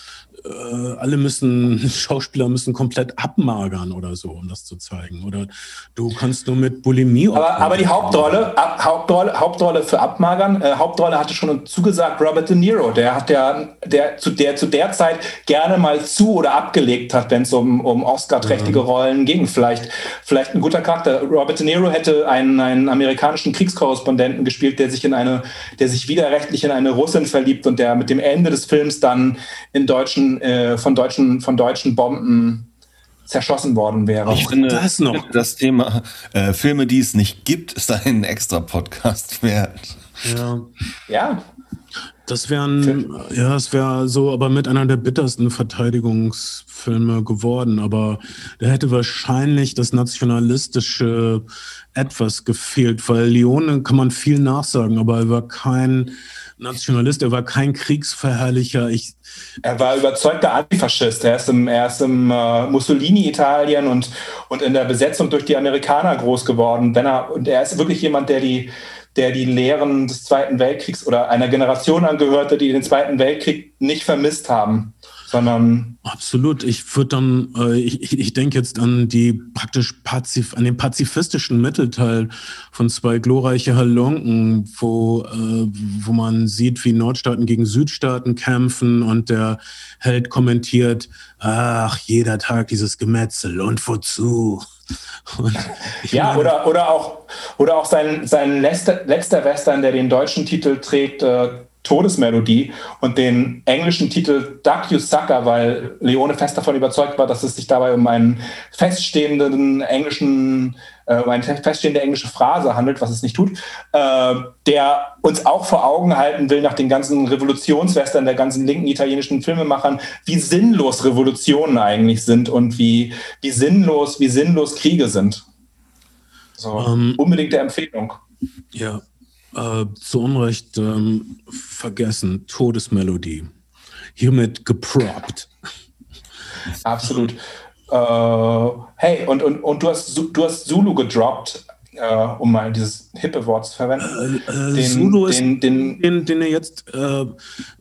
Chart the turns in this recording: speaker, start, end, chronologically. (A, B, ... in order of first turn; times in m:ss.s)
0:00.4-0:08.5 A
0:07.3-0:32.7 B
0:18.4-0:18.8 A
0:33.3-0:34.5 B
0:34.3-0:35.5 A
0:34.3-0:40.0 C
0:40.2-0:40.7 A
0:41.1-0:41.4 B
0:42.3-0:59.2 A
0:59.6-1:16.0 B
1:16.0-1:34.6 A
1:35.3-1:36.5 A
1:36.1-2:05.4 B
2:06.6-2:08.2 B
2:06.8-2:07.2 A
2:08.7-2:09.0 A
2:09.5-2:13.5 A
2:14.2-2:15.5 A
2:16.8-2:24.2 B
2:24.0-2:27.4 A
2:24.7-2:26.0 B